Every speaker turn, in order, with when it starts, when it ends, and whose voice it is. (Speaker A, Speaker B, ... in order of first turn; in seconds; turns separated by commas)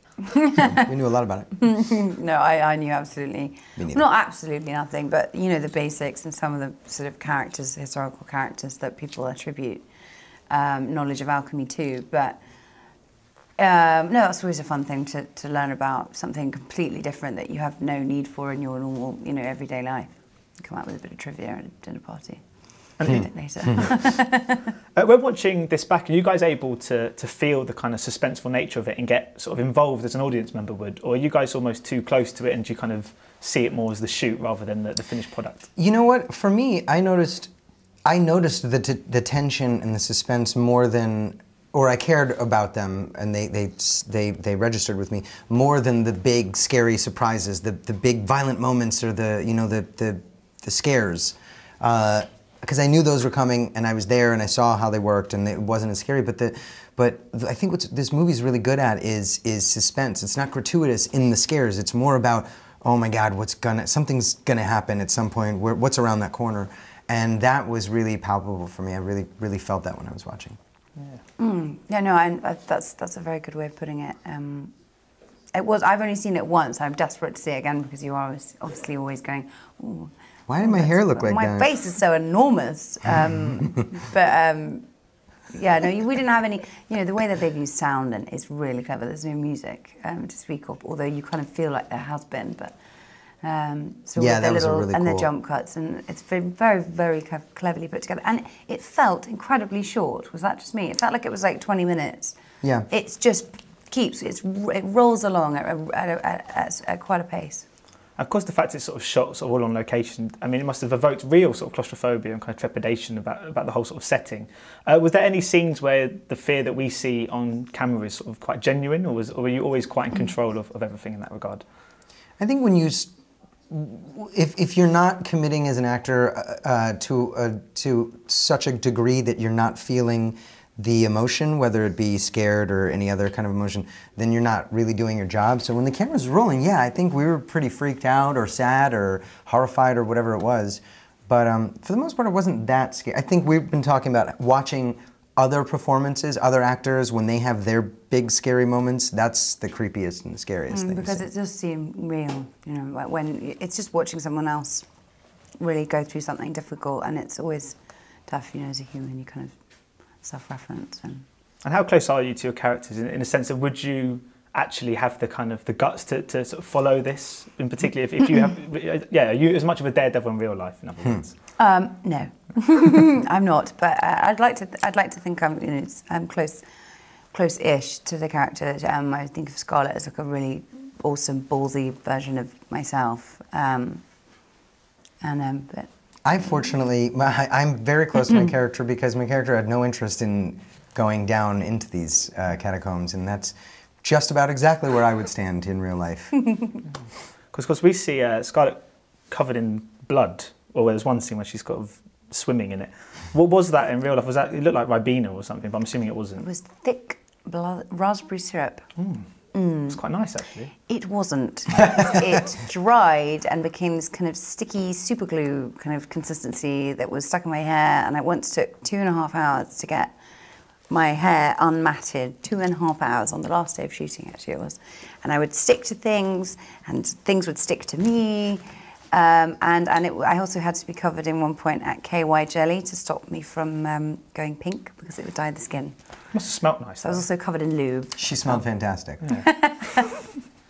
Speaker A: 0.3-0.9, Speaker B: 0.6-1.6, Speaker A: 1.6-9.8, Speaker B: 3.8-4.0, Speaker A: 10.5-12.4, Speaker A: 13.6-22.4, Speaker C: 23.0-23.9, Speaker A: 23.0-24.7, Speaker C: 24.9-35.7, Speaker B: 35.8-37.5, Speaker B: 38.0-70.6, Speaker A: 71.4-74.7, Speaker A: 75.5-84.8, Speaker B: 80.5-81.7, Speaker A: 85.5-92.8, Speaker A: 93.4-102.4, Speaker B: 94.2-95.3, Speaker B: 102.6-102.9, Speaker A: 102.9-107.7, Speaker C: 108.2-121.6, Speaker B: 122.4-123.1, Speaker B: 123.7-151.2, Speaker A: 150.7-154.8, Speaker A: 155.6-159.5, Speaker A: 160.2-161.2, Speaker C: 161.6-171.3, Speaker A: 171.6-176.6, Speaker A: 177.3-184.0, Speaker A: 185.2-185.9, Speaker B: 186.2-196.5, Speaker C: 197.5-206.5, Speaker A: 206.4-208.9, Speaker C: 209.0-209.2, Speaker A: 209.5-210.0, Speaker C: 209.8-210.7, Speaker A: 210.8-220.1, Speaker A: 220.9-236.0, Speaker C: 236.3-237.2, Speaker A: 237.0-238.6, Speaker B: 238.2-239.2, Speaker C: 239.2-240.1, Speaker A: 239.3-240.1